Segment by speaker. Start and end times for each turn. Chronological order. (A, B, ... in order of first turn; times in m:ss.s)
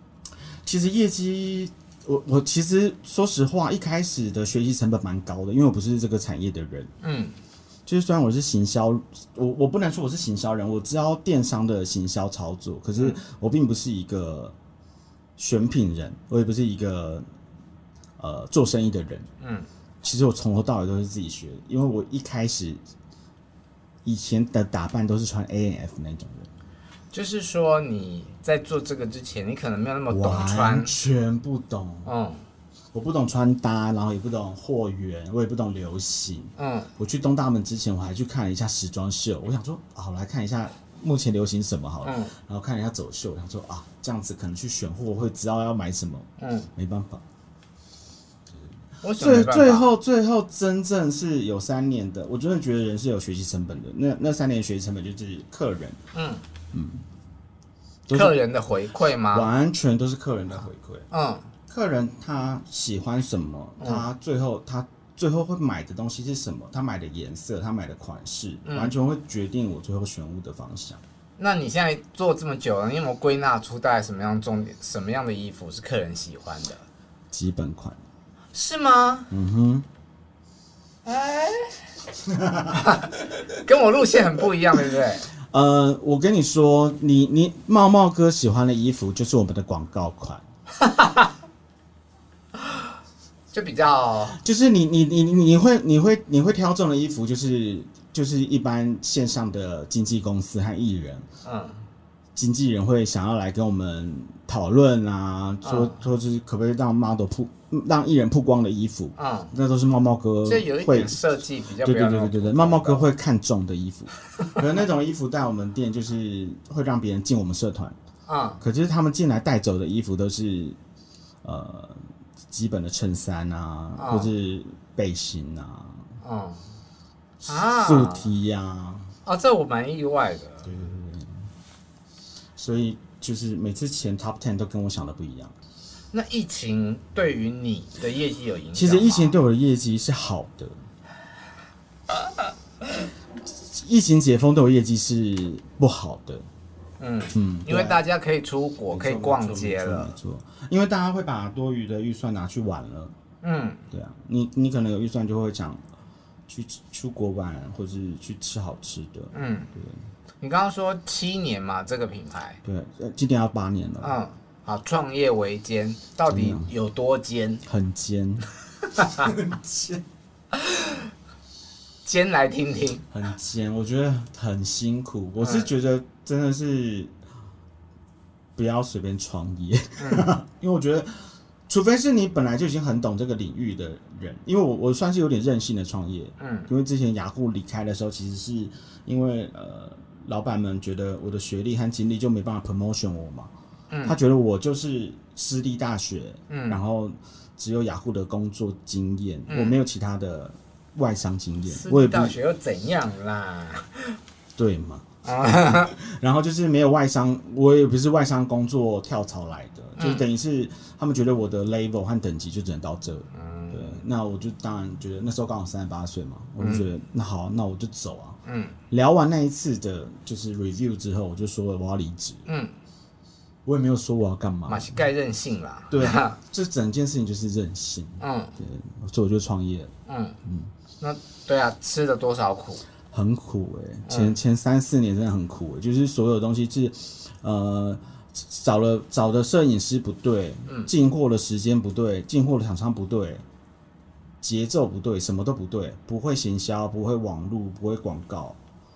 0:00.6-0:06.9 A
0:07.0-0:07.4 B
0:07.8-0:14.6 A
0:15.4-0:17.2 A
0:18.2-0:19.3 A
0:19.4-0:19.7 B
0:20.0-0:22.8 A
0:24.0-0:26.5 A
0:27.1-0:30.9 B
0:30.1-0:32.1 A
0:32.0-0:32.4 B
0:32.9-0:47.2 A
0:36.6-0:36.9 B
0:42.0-0:42.3 B
0:46.4-0:46.7 B
0:49.0-0:49.9 B
0:49.2-0:56.0 A
0:56.1-0:56.4 B
0:56.7-0:57.0 A
0:58.1-0:58.4 A
0:58.1-0:59.5 B
0:59.3-1:01.1 A
1:01.1-1:01.5 B
1:01.7-1:11.0 A
1:03.8-1:04.0 B
1:08.6-1:08.9 B
1:11.4-1:16.8 B
1:17.3-1:18.0 A
1:18.5-1:19.3 B
1:19.3-1:19.8 A
1:21.0-1:21.8 B
1:22.3-1:22.8 A
1:22.8-1:25.3 B
1:25.4-1:30.4 A
1:30.8-1:31.3 B
1:33.5-1:34.4 B
1:34.3-1:41.3 A
1:41.4-1:41.8 B
1:42.3-1:58.0 A
1:45.6-1:46.0 B
1:49.2-1:49.5 B
1:50.4-1:53.0 B
1:58.3-1:58.6 B
1:58.6-2:00.8 A
2:01.4-2:06.1 A
2:04.0-2:04.3 B
2:06.2-2:06.7 B
2:07.4-2:09.1 A
2:07.5-2:08.3 B
2:09.2-2:10.7 B
2:10.6-2:11.5 A
2:12.6-2:15.5 A
2:16.1-2:19.3 B
2:18.7-2:20.7 A
2:23.5-2:26.5 A
2:27.0-2:30.2 B
2:27.3-2:28.0 A
2:28.9-2:33.1 A
2:33.4-2:33.8 B
2:33.9-2:35.8 A
2:36.5-2:40.0 A
2:39.3-2:39.7 B
2:40.4-2:42.6 B
2:42.6-2:44.2 A
2:44.0-2:47.6 B
2:46.3-2:46.7 A
2:47.6-2:50.0 A
2:49.0-2:49.3 B
2:50.5-2:51.0 B
2:52.0-2:53.0 B
2:53.1-2:57.1 A
2:55.4-2:55.7 B
2:58.6-3:13.5 A
3:00.0-3:00.3 B
3:06.4-3:06.7 B
3:13.9-3:14.2 B
3:14.0-3:22.4 A
3:16.5-3:16.8 B
3:19.5-3:19.8 B
3:21.7-3:24.2 B
3:24.6-3:38.4 A
3:25.2-3:25.9 B
3:30.0-3:30.2 B
3:33.3-3:34.0 B
3:36.6-3:36.9 B
3:38.4-3:38.8 B
3:38.9-3:42.5 A
3:42.5-3:42.7 B
3:43.6-3:45.0 A
3:44.7-3:46.4 B
3:45.9-3:49.9 A
3:48.2-3:48.6 B
3:50.1-3:50.4 B
3:50.4-3:50.7 A
3:51.0-3:52.8 B
3:53.1-4:03.4 A
3:54.1-3:54.3 B
4:04.4-4:08.6 A